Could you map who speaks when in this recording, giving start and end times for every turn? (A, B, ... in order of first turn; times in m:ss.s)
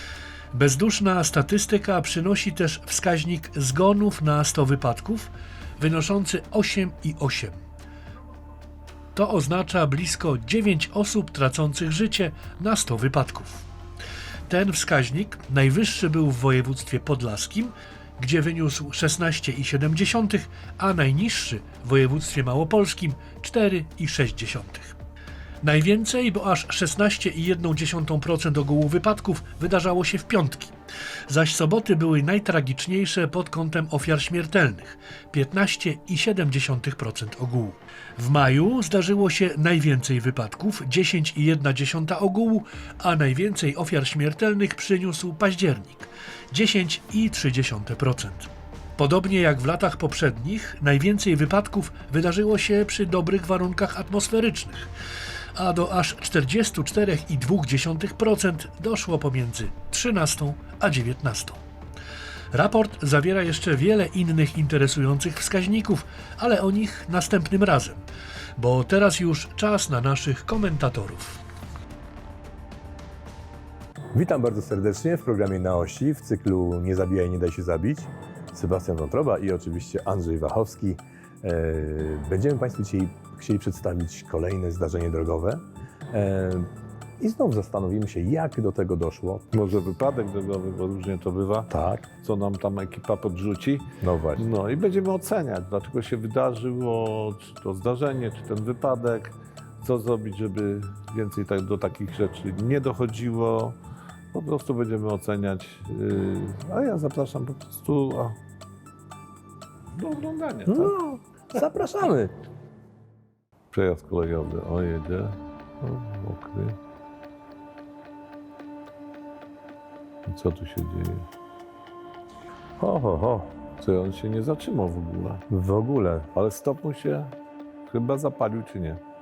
0:00.5-0:07.6 A
0:09.1-0:13.6 A
0:14.5-0:25.0 A
0:25.6-0:30.7 A
0:31.3-0:54.9 A
0:55.6-1:01.6 A
1:02.5-1:08.0 A
1:08.6-1:11.4 A
1:14.1-1:26.7 B
1:27.2-1:29.5 B
1:29.5-1:43.8 C
1:31.7-1:32.1 B
1:34.0-1:34.5 B
1:44.3-1:48.4 C
1:49.9-1:50.9 C
1:50.7-1:52.3 B
1:53.7-1:56.8 C
2:00.2-2:01.2 C
2:02.8-2:03.5 B
2:03.8-2:05.4 C
2:05.5-2:06.3 B
2:06.3-2:07.3 C
2:07.9-2:09.0 C